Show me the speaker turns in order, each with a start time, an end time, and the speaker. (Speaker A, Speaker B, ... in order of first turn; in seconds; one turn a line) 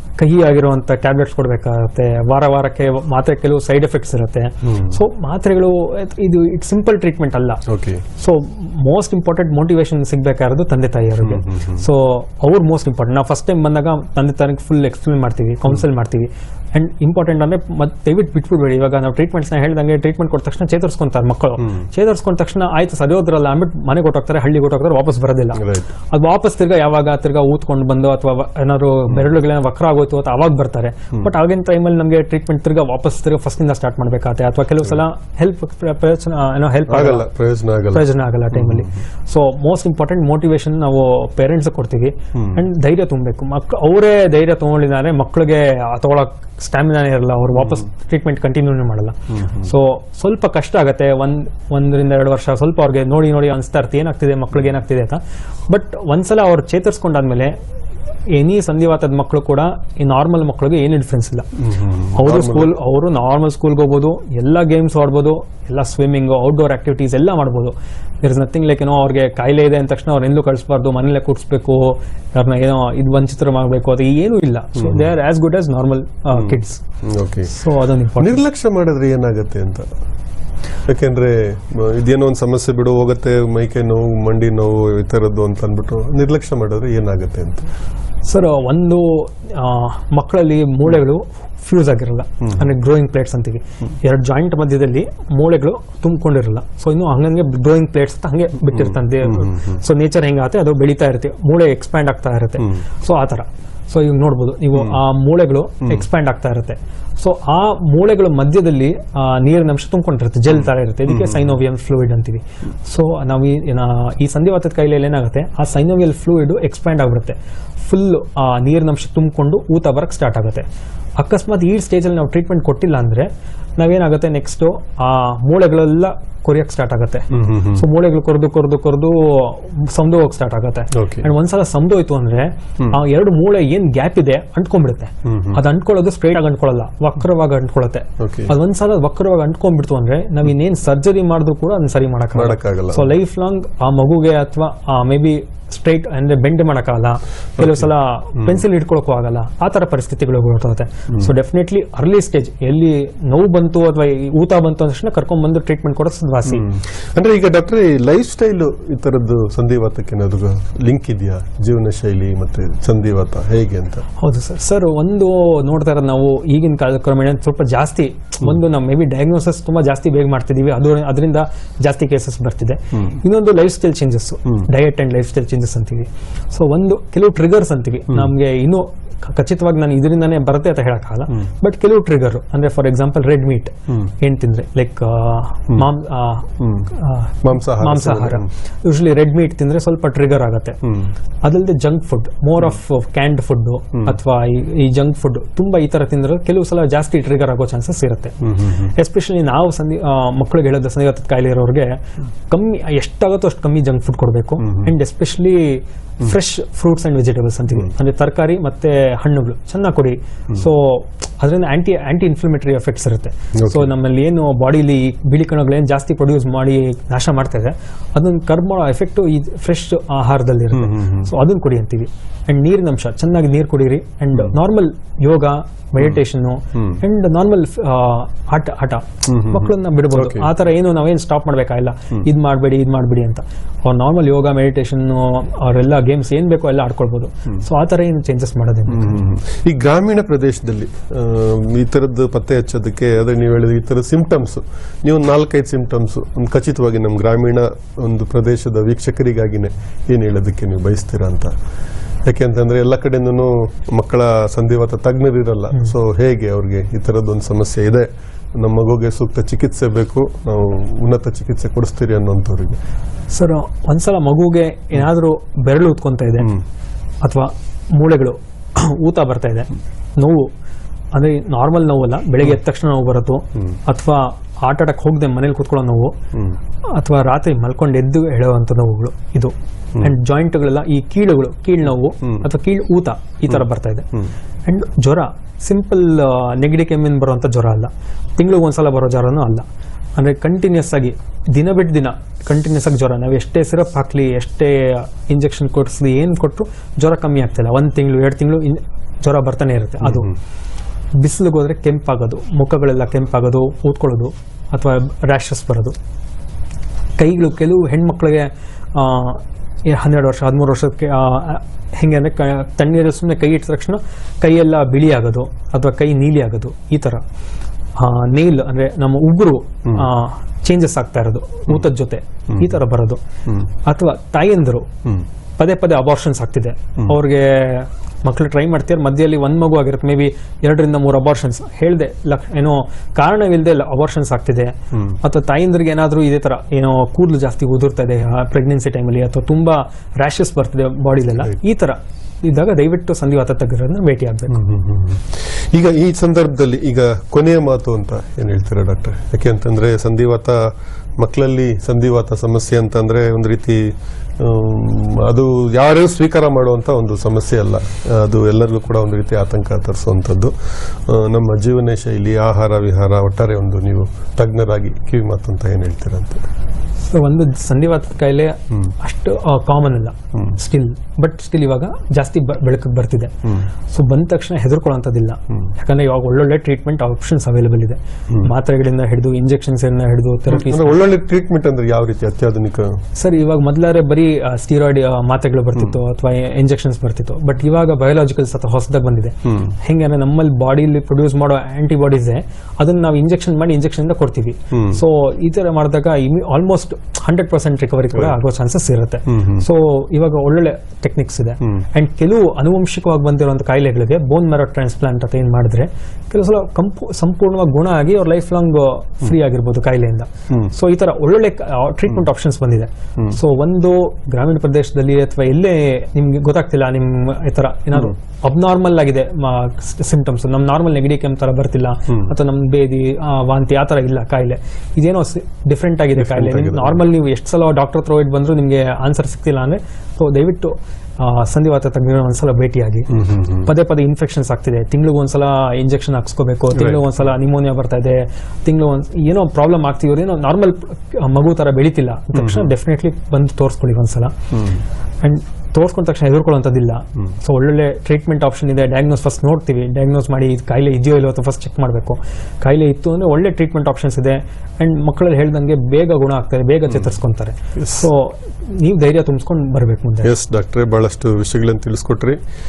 Speaker A: 0.2-7.6
Speaker B: 4.7-5.0
Speaker B: 7.7-8.0
Speaker A: 8.2-37.3
Speaker B: 11.2-11.8
Speaker B: 25.6-25.9
Speaker B: 36.9-38.9
Speaker A: 37.9-57.6
Speaker B: 42.4-42.6
Speaker B: 47.6-47.8
Speaker B: 49.3-49.7
Speaker A: 58.3-61.5
Speaker B: 61.6-62.8
Speaker A: 62.1-76.8
Speaker B: 74.8-75.1
Speaker B: 76.3-77.5
Speaker A: 77.5-78.4
Speaker B: 78.2-79.9
Speaker B: 80.9-87.7
Speaker A: 88.3-120.7
Speaker B: 98.8-99.8
Speaker B: 111.1-111.6
Speaker A: 121.2-156.7
Speaker B: 127.3-127.8
Speaker B: 130.9-131.3
Speaker B: 135.2-135.6
Speaker B: 138.2-138.5
Speaker B: 142.3-143.2
Speaker B: 147.6-148.6
Speaker B: 156.5-164.1
Speaker A: 164.2-190.8
Speaker B: 186.6-186.9
Speaker B: 187.4-188.5
Speaker B: 190.8-191.1
Speaker A: 191.4-202.0
Speaker B: 198.4-198.9
Speaker A: 202.5-239.2
Speaker B: 204.7-204.9
Speaker B: 213.6-213.9
Speaker B: 220.7-221.3
Speaker B: 226.8-227.0
Speaker B: 229.3-230.5
Speaker B: 238.9-251.5
Speaker B: 252.3-262.8
Speaker A: 263.3-266.6
Speaker A: 267.2-270.5
Speaker A: 271.1-276.1
Speaker A: 276.9-284.1
Speaker A: 284.7-289.6
Speaker A: 290.2-300.3
Speaker B: 300.0-300.3
Speaker A: 301.2-306.0
Speaker A: 307.2-317.2
Speaker A: 318.0-323.2
Speaker A: 323.8-324.9
Speaker A: 325.6-344.6
Speaker B: 334.9-335.2
Speaker B: 344.5-360.5
Speaker B: 361.1-366.4
Speaker A: 367.0-373.3
Speaker A: 373.9-381.0
Speaker B: 380.5-383.0
Speaker A: 383.1-433.1
Speaker B: 389.4-389.8
Speaker B: 394.7-395.0
Speaker B: 399.3-399.7
Speaker B: 426.2-427.0
Speaker B: 433.1-433.7
Speaker A: 433.6-444.4
Speaker B: 436.7-437.2
Speaker B: 442.4-442.7
Speaker B: 444.5-444.8
Speaker A: 445.2-460.3
Speaker B: 460.2-462.4